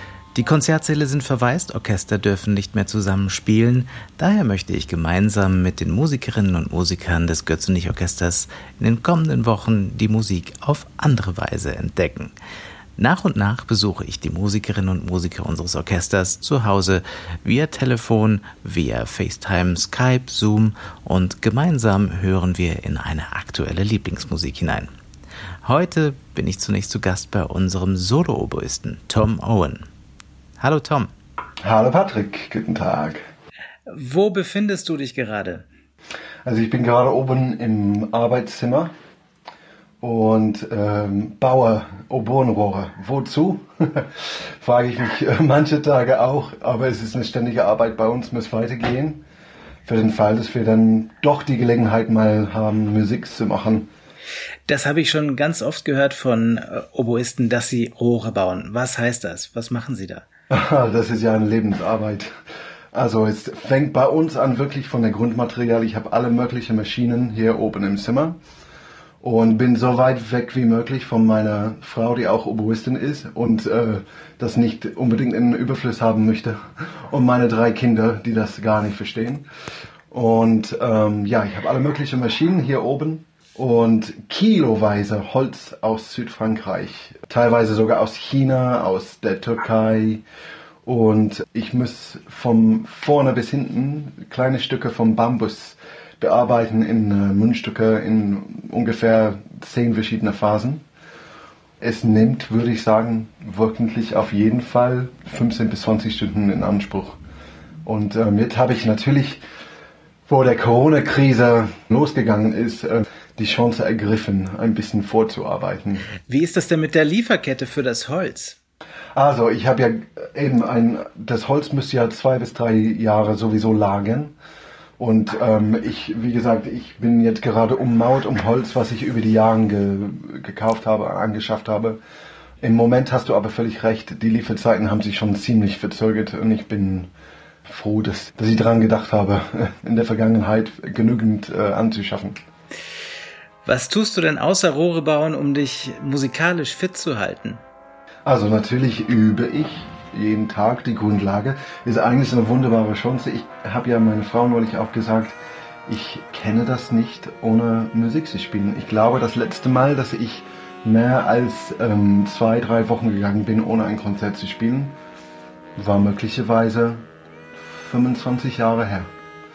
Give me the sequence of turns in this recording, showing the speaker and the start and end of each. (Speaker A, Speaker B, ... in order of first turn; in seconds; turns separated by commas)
Speaker A: 0.3-12.3, Speaker A: 13.0-24.9, Speaker A: 25.6-29.8, Speaker A: 30.6-31.1, Speaker B: 31.6-33.2, Speaker A: 33.9-35.7, Speaker B: 36.5-38.9, Speaker B: 40.0-49.2, Speaker B: 49.9-53.9, Speaker A: 54.7-60.2, Speaker B: 60.5-62.3, Speaker B: 62.9-68.4, Speaker B: 69.2-79.5, Speaker B: 80.1-90.2, Speaker B: 90.8-100.8, Speaker B: 101.8-107.2, Speaker B: 107.8-109.4, Speaker B: 110.3-116.1, Speaker A: 116.3-118.6, Speaker B: 119.2-124.3, Speaker B: 125.0-132.0, Speaker B: 132.6-137.1, Speaker B: 137.7-142.4, Speaker A: 143.6-147.6, Speaker B: 148.2-164.9, Speaker B: 165.8-167.0, Speaker B: 167.6-169.1